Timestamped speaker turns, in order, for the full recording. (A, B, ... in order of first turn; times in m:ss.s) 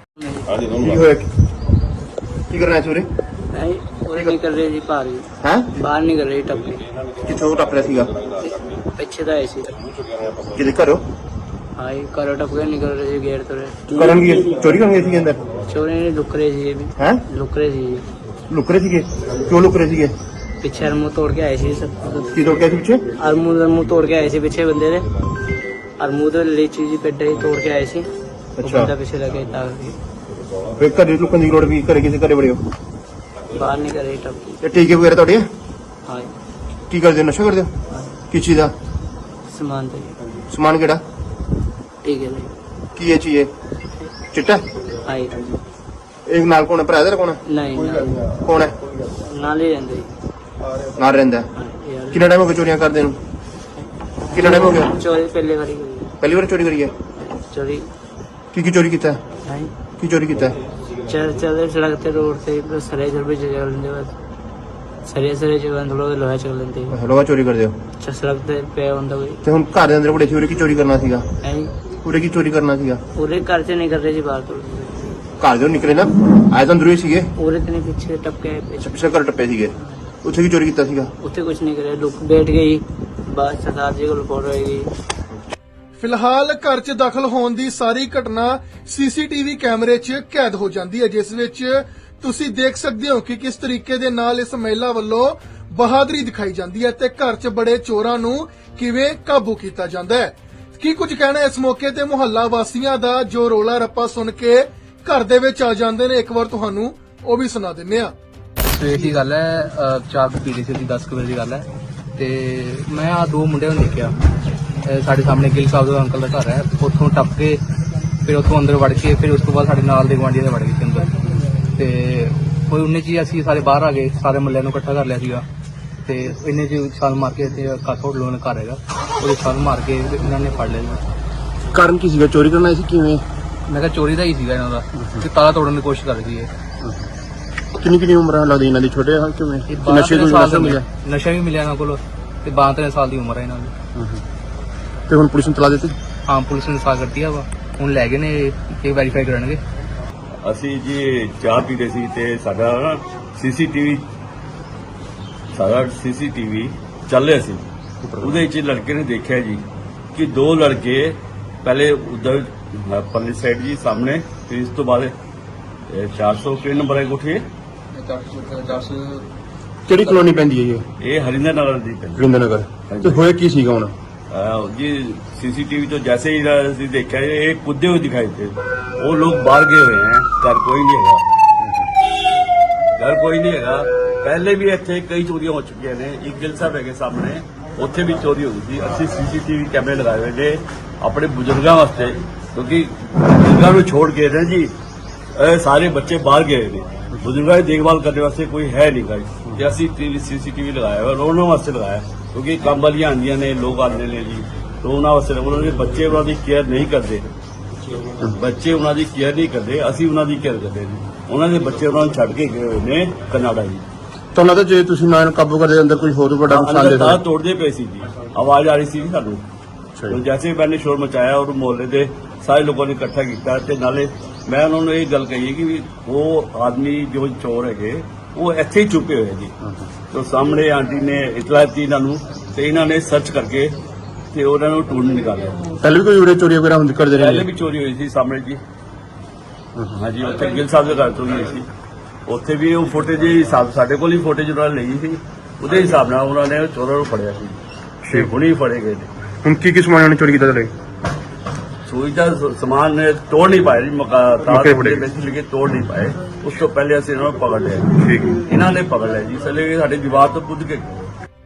0:00.2-0:00.6 A
0:00.7-0:01.3 B
0:02.5-0:03.1 B
0:03.5-0:06.9 A
0:05.4-0:05.8 B
0:07.2-0:08.1 B
0:08.4-0:09.8 A
0:10.5-0:11.0 B
0:11.8-0:13.8 A
0:13.9-0:15.4 B
0:15.7-0:18.1 A
0:17.0-0:17.2 B
0:18.5-0:20.1 B
0:20.6-0:22.4 A
0:22.3-0:23.0 B
0:23.2-0:25.1 A
0:26.0-0:28.1 A
0:28.6-0:28.9 B
0:28.6-0:30.0 A
0:30.8-0:32.6 B
0:33.5-0:34.6 A
0:34.6-0:35.5 B
0:36.1-0:36.3 A
0:36.9-0:37.7 B
0:38.3-0:38.7 B
0:39.5-0:40.2 A
0:40.5-0:41.0 B
0:42.0-0:42.5 A
0:43.0-0:43.5 B
0:44.3-0:44.6 B
0:45.0-0:45.5 A
0:46.3-0:47.4 B
0:47.5-0:48.3 A
0:48.3-0:48.8 B
0:49.2-0:50.1 A
0:51.0-0:51.5 B
0:51.6-0:52.3 A
0:52.1-0:53.2 B
0:53.8-0:56.1 A
0:54.3-0:54.9 B
0:56.2-0:56.9 B
0:57.5-0:57.9 A
0:58.5-0:59.2 B
0:59.5-0:59.7 A
1:00.0-1:00.6 B
1:01.1-1:04.1 A
1:05.0-1:07.0 A
1:06.9-1:07.7 B
1:08.0-1:09.4 A
1:09.4-1:11.2 B
1:11.4-1:11.7 A
1:12.0-1:13.0 B
1:13.2-1:15.1 A
1:15.4-1:17.3 B
1:17.4-1:19.0 A
1:18.8-1:21.1 B
1:21.2-1:24.9 A
1:26.0-1:48.1 C
1:48.7-1:54.2 D
1:54.8-1:57.6 D
1:58.2-2:01.1 D
2:01.8-2:05.5 D
2:06.1-2:11.0 D
2:11.7-2:13.2 B
2:13.7-2:16.5 D
2:17.8-2:20.8 B
2:19.7-2:23.7 D
2:24.0-2:24.2 B
2:25.1-2:26.0 B
2:26.3-2:29.6 D
2:30.4-2:34.0 E
2:35.5-2:37.6 E
2:38.0-2:38.5 B
2:38.2-2:39.6 E
2:40.1-2:45.2 E
2:45.9-2:47.4 E
2:47.9-2:49.3 D
2:49.9-2:50.8 B
2:49.9-2:50.2 D
2:51.0-2:52.3 E
2:52.2-2:53.9 B
2:52.9-2:53.2 E
2:54.3-3:01.2 E
3:03.0-3:14.7 E
3:15.4-3:27.3 E
3:28.3-3:33.8 E
3:34.3-3:37.2 B
3:36.5-3:39.4 E
3:40.1-3:49.5 E
3:50.1-3:53.8 E
3:54.3-3:55.8 E
3:55.8-3:57.5 B
3:57.2-3:58.6 E
4:00.0-4:01.7 E
4:02.3-4:09.1 E
4:08.0-4:08.3 B
4:09.4-4:10.7 B
4:11.9-4:18.0 E
4:14.5-4:15.1 B
4:18.0-4:18.4 B
4:18.5-4:21.1 E